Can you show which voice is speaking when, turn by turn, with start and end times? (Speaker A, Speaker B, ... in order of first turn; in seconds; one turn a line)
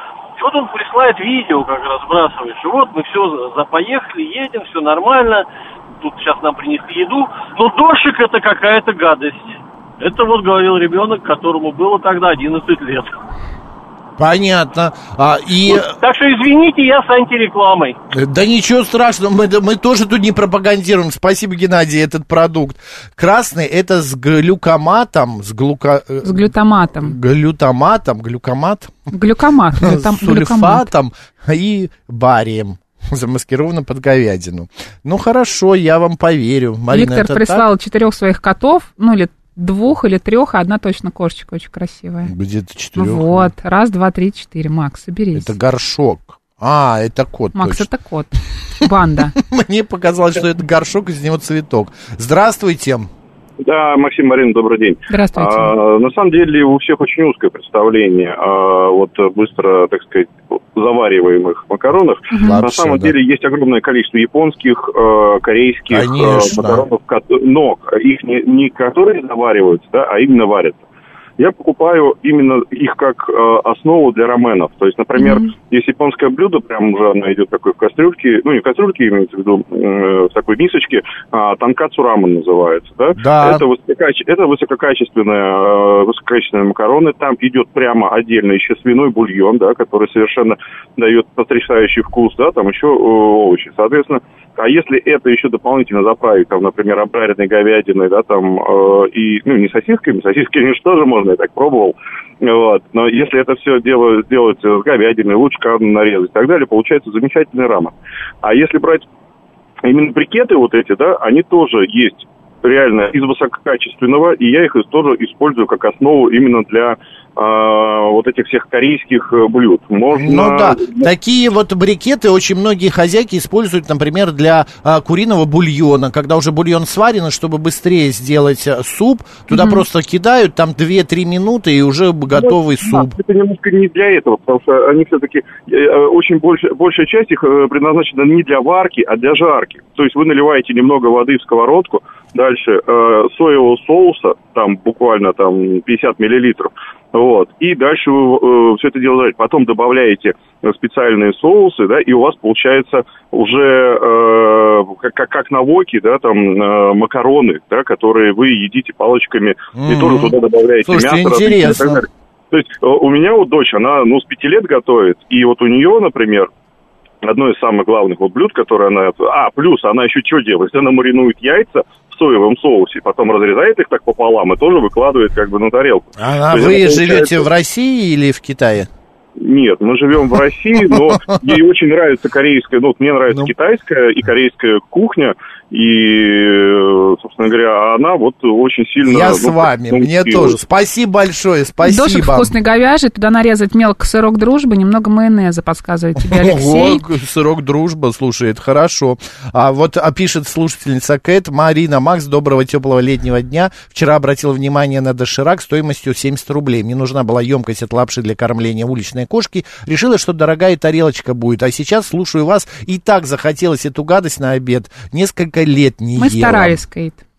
Speaker A: 0.4-5.5
Speaker A: 6.0-13.2
Speaker B: 14.2-15.9
Speaker A: 15.7-18.0
Speaker B: 18.1-28.9
Speaker C: 26.2-27.1
Speaker C: 29.1-30.9
Speaker B: 29.7-37.7
Speaker C: 36.9-42.3
Speaker B: 42.2-43.5
Speaker C: 43.0-45.5
Speaker B: 45.3-47.9
Speaker C: 47.5-49.3
Speaker B: 49.3-53.1
Speaker D: 53.6-70.8
Speaker C: 55.1-55.7
Speaker C: 62.3-62.6
Speaker B: 62.4-63.1
Speaker B: 65.9-66.8
Speaker D: 71.4-109.1
Speaker C: 75.2-75.5
Speaker B: 83.2-83.6
Speaker D: 109.8-121.0
Speaker B: 120.1-133.2
Speaker C: 129.5-129.8
Speaker D: 132.3-166.5
Speaker B: 159.7-162.0
Speaker D: 167.2-177.4
Speaker B: 176.2-178.9
Speaker D: 179.4-190.6
Speaker B: 180.9-181.4
Speaker B: 189.0-192.5
Speaker C: 191.8-197.0
Speaker B: 196.2-216.8
Speaker C: 216.2-217.2